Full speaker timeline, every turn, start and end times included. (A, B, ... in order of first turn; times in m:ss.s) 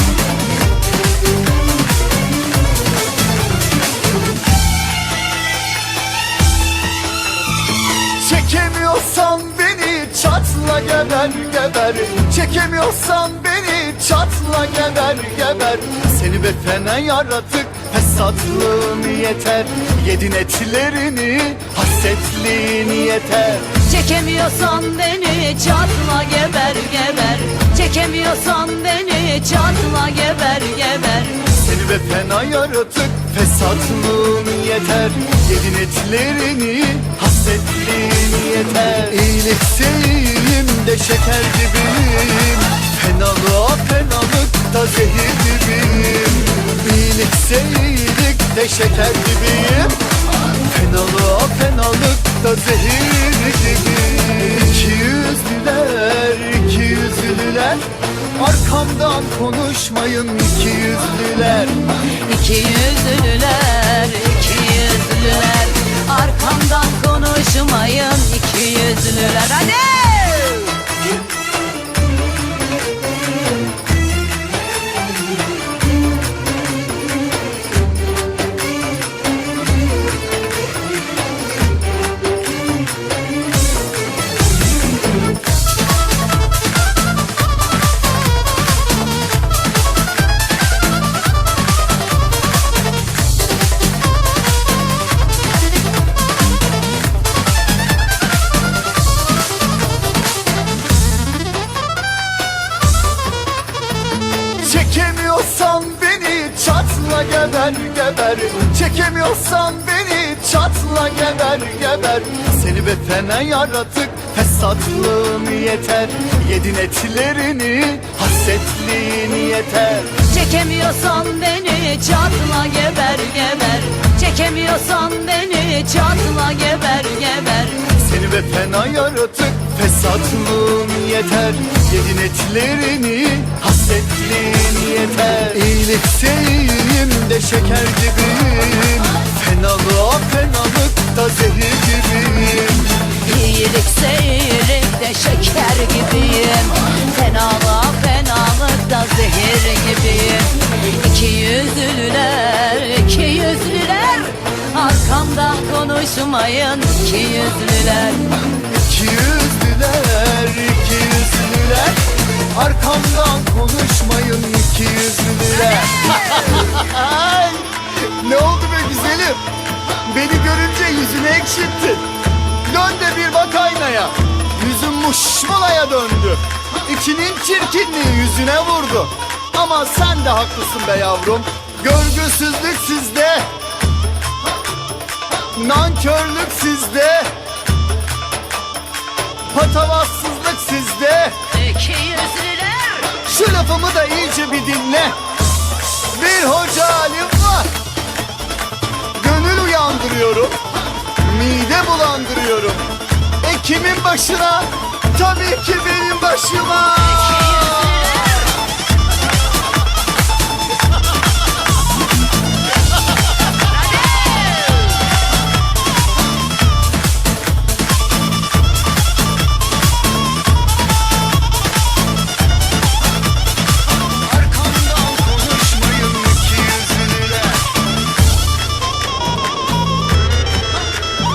0:08.1-0:23.8 A
0:23.8-0:31.5 B
0:31.5-1:01.9 A
1:02.1-1:10.9 B
1:44.6-2:00.2 A
2:00.2-2:07.9 B
2:07.9-2:23.1 A
2:23.1-2:38.4 B
2:38.7-2:52.1 A
2:52.6-3:03.5 A
3:05.5-3:07.4 A
3:09.5-3:11.4 A
3:11.5-3:13.2 B
3:13.1-3:15.2 A
3:16.0-3:17.7 A
3:19.1-3:20.6 A
3:21.1-3:28.1 A
3:27.3-3:28.4 B
3:44.2-3:47.7 A